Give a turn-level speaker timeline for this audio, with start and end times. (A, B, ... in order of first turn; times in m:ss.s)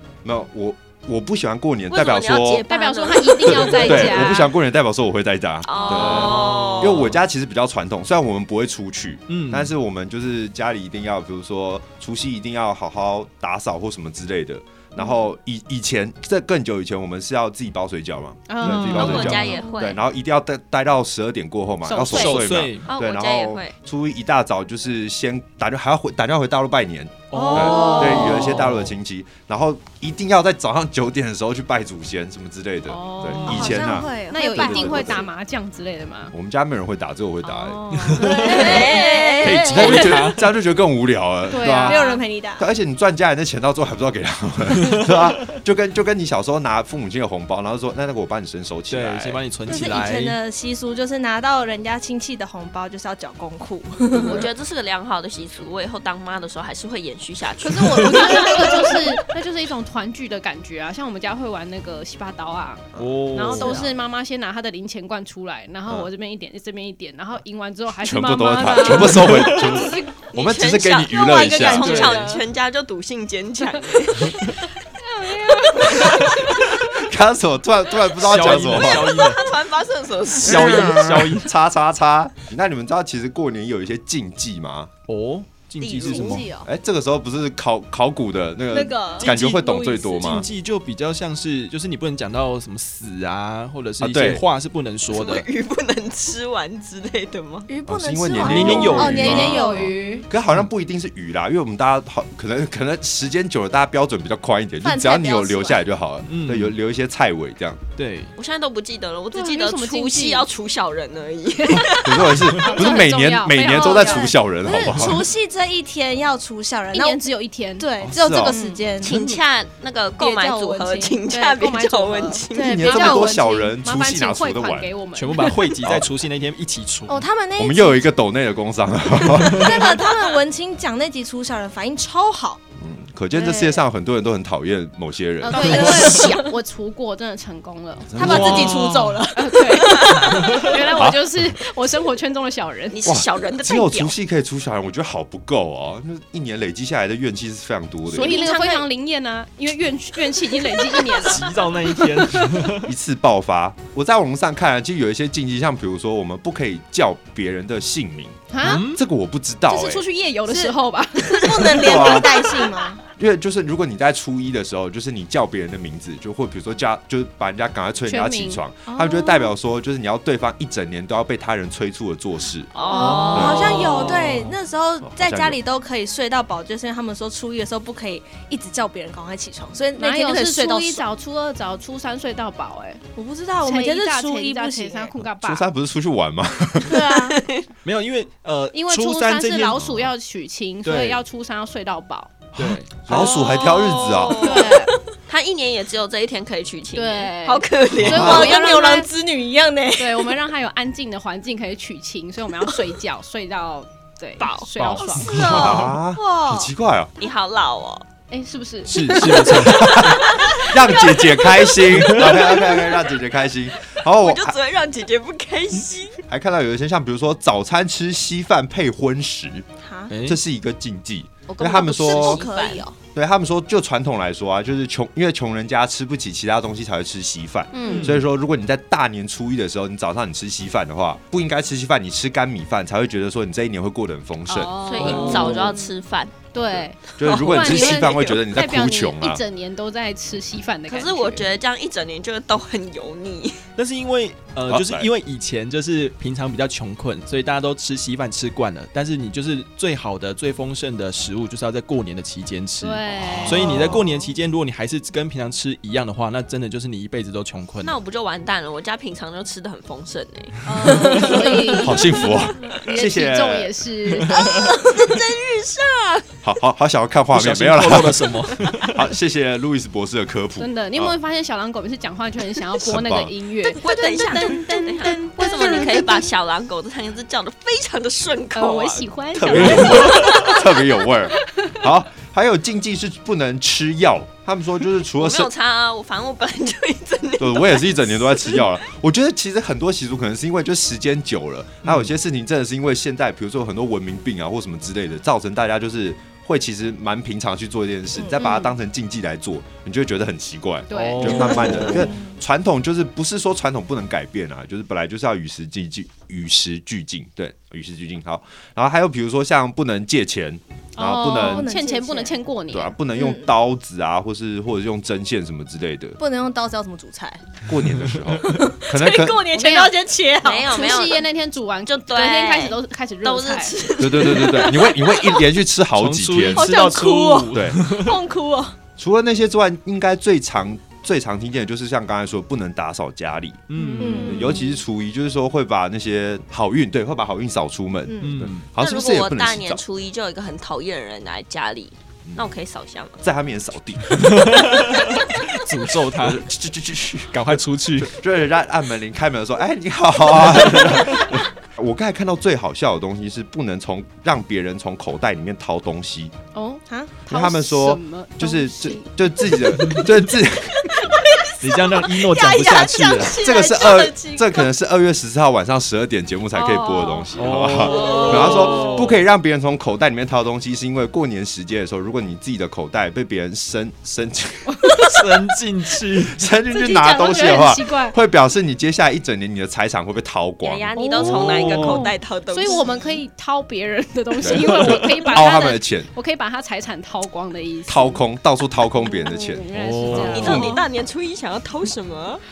0:00.2-0:02.6 A
0:01.9-0:04.4 B
0:02.7-0:04.5 C
0:03.5-0:35.2 A
0:05.6-0:07.1 B
0:06.2-0:07.0 D
0:09.3-0:09.7 D
0:18.5-0:19.6 C
0:18.6-0:19.5 D
0:18.7-0:20.0 B
0:21.8-0:22.4 C
0:22.1-0:22.9 D
0:22.9-0:23.7 B
0:27.3-0:28.9 D
0:27.3-0:28.5 E
0:27.5-0:28.3 C
0:32.9-0:36.3 C
0:33.4-0:35.3 E
0:36.3-0:38.3 A
0:37.4-0:39.0 C
0:38.0-0:38.8 D
0:38.2-0:40.2 E
0:38.4-0:39.6 B
0:39.4-0:40.4 D
0:39.6-0:42.1 A
0:41.5-0:42.2 C
0:41.8-0:42.6 E
0:42.6-0:49.4 A
0:48.9-0:50.4 D
0:49.6-0:54.5 E
0:54.1-0:58.9 B
0:57.6-0:59.0 E
0:57.9-1:10.1 C
1:03.0-1:03.8 A
1:03.0-1:03.8 D
1:08.0-1:12.2 A
1:10.3-1:14.6 B
1:11.2-1:12.4 E
1:11.8-1:12.4 D
1:15.0-1:16.6 C
1:15.8-1:16.4 B
1:16.5-1:19.3 A
1:18.2-1:19.5 D
1:18.7-1:21.1 B
1:20.4-1:21.5 D
1:20.4-1:24.9 A
1:25.1-1:26.5 D
1:25.8-1:26.4 B
1:26.0-1:26.7 E
1:26.6-1:30.5 A
1:28.7-1:29.4 E
1:29.2-1:35.5 D
1:34.0-1:34.4 A
1:35.1-1:37.7 B
1:37.7-1:40.0 E
1:37.9-1:47.8 A
1:38.4-1:39.6 D
1:39.0-1:40.2 C
1:44.8-1:45.8 E
1:46.3-1:46.8 D
1:48.0-1:48.3 D
1:48.4-1:52.5 B
1:49.3-1:50.5 C
1:52.0-1:55.3 A
1:52.6-1:54.3 C
1:53.6-1:57.2 E
1:56.9-1:57.9 C
1:57.8-1:59.4 E
1:58.0-1:58.6 A
1:58.4-1:59.3 C
1:59.0-2:02.9 B
2:00.2-2:01.2 E
2:01.2-2:05.6 C
2:02.5-2:03.4 E
2:02.6-2:04.9 A
2:05.1-2:07.2 D
2:07.1-2:08.1 E
2:07.6-2:09.9 A
2:09.5-2:12.6 E
2:12.8-2:16.2 A
2:13.4-2:13.8 C
2:15.4-2:18.5 C
2:15.5-2:16.5 E
2:18.1-2:18.9 A
2:18.2-2:20.8 E
2:18.2-2:19.2 D
2:19.3-2:23.0 C
2:21.0-2:21.2 A
2:22.9-2:24.1 B
2:23.0-2:28.4 A
2:28.1-2:32.5 C
2:28.1-2:28.8 B
2:31.1-2:32.9 D
2:32.8-2:40.0 A
2:38.5-2:38.8 C
2:38.6-2:39.0 D
2:39.7-2:42.5 C
2:40.5-2:43.0 E
2:41.8-2:42.4 A
2:43.2-2:52.7 A
2:48.1-2:48.6 C
2:48.9-2:49.5 E
2:52.7-2:54.2 B
2:52.8-2:53.6 C
2:52.9-3:01.0 E
2:53.3-2:55.6 A
3:00.0-3:03.0 C
3:03.1-3:05.2 E
3:03.6-3:05.7 C
3:05.4-3:07.1 A
3:06.9-3:07.4 C
3:06.9-3:07.4 E
3:07.1-3:07.7 B
3:07.8-3:09.9 D
3:08.7-3:12.3 C
3:10.8-3:11.2 D
3:12.5-3:13.3 D
3:12.6-3:14.6 A
3:13.1-3:18.7 B
3:14.4-3:15.0 C
3:16.9-3:19.1 C
3:18.0-3:18.6 A
3:18.1-3:20.4 E
3:20.0-3:25.4 C
3:24.4-3:25.1 B
3:24.8-3:25.5 D
3:25.1-3:26.7 E
3:25.3-3:27.1 A
3:27.2-3:28.0 B
3:28.3-3:29.5 C
3:28.9-3:30.0 D
3:29.6-3:34.6 A
3:30.0-3:33.2 B
3:31.9-3:32.5 D
3:33.9-3:36.2 B
3:36.3-3:39.6 A
3:39.8-3:40.1 E
3:40.1-3:40.4 D
3:40.2-3:42.5 A
3:41.5-3:42.8 B
3:41.8-3:43.0 E
3:43.1-3:55.5 A
3:47.7-3:48.2 C
3:47.9-3:48.2 D
3:54.5-3:55.9 C
3:54.8-3:56.4 B
3:55.1-3:55.6 D
3:56.5-4:01.5 C
3:57.2-3:58.3 B
3:57.2-3:59.4 A
4:00.9-4:03.6 B
4:03.8-4:17.9 D
4:04.7-4:05.1 A
4:12.8-4:13.9 C
4:13.5-4:13.9 A
4:13.8-4:14.3 E
4:17.8-4:22.4 B
4:20.6-4:24.5 C
4:21.8-4:23.8 A
4:24.2-4:24.7 D
4:24.4-4:26.2 B
4:24.6-4:25.2 E
4:26.4-4:28.4 A
4:27.3-4:29.1 D
4:28.9-4:31.1 A
4:30.6-4:36.2 C
4:32.7-4:33.3 A
4:33.6-4:39.1 B
4:35.6-4:35.9 E
4:38.5-4:40.6 C
4:39.4-4:45.5 A
4:39.9-4:40.6 B
4:45.2-4:48.7 B
4:47.4-5:11.7 A
4:51.8-4:52.1 D
4:58.4-4:58.8 C
5:00.9-5:01.9 C
5:00.9-5:02.1 D
5:01.6-5:02.4 E
5:11.0-5:13.0 C
5:11.3-5:12.4 E
5:12.7-5:16.2 A
5:13.1-5:13.5 E
5:16.2-5:17.5 E
5:17.6-5:19.5 A
5:18.4-5:20.7 E
5:19.5-5:20.0 C
5:20.4-5:21.2 B
5:20.6-5:23.8 C
5:21.9-5:25.4 B
5:24.0-5:26.7 A
5:26.0-5:28.2 D
5:26.5-5:28.8 E
5:27.5-5:27.8 A
5:29.0-5:33.6 A
5:33.7-5:34.4 D
5:33.7-5:34.7 C
5:34.0-5:34.6 E
5:34.2-5:39.8 A
5:38.1-5:38.4 E
5:38.2-5:38.7 D
5:38.8-5:43.2 B
5:43.2-5:44.9 A
5:44.2-5:46.4 D
5:46.1-5:56.3 A
5:47.3-5:48.1 D
5:50.8-5:51.2 D
5:56.5-5:59.1 C
5:57.3-6:01.1 A
6:00.8-6:04.6 E
6:01.6-6:03.4 D
6:03.4-6:15.5 A
6:06.5-6:07.6 C
6:07.4-6:09.2 D
6:15.1-6:16.4 D
6:16.2-6:20.9 A
6:16.7-6:18.2 C
6:20.6-6:23.1 B
6:21.0-6:28.2 C
6:21.2-6:22.1 D
6:22.6-6:23.0 E
6:24.4-6:26.1 A
6:24.5-6:25.3 D
6:27.9-6:30.8 A
6:29.2-6:30.7 C
6:29.7-6:30.6 D
6:30.1-6:32.4 B
6:30.4-6:30.8 E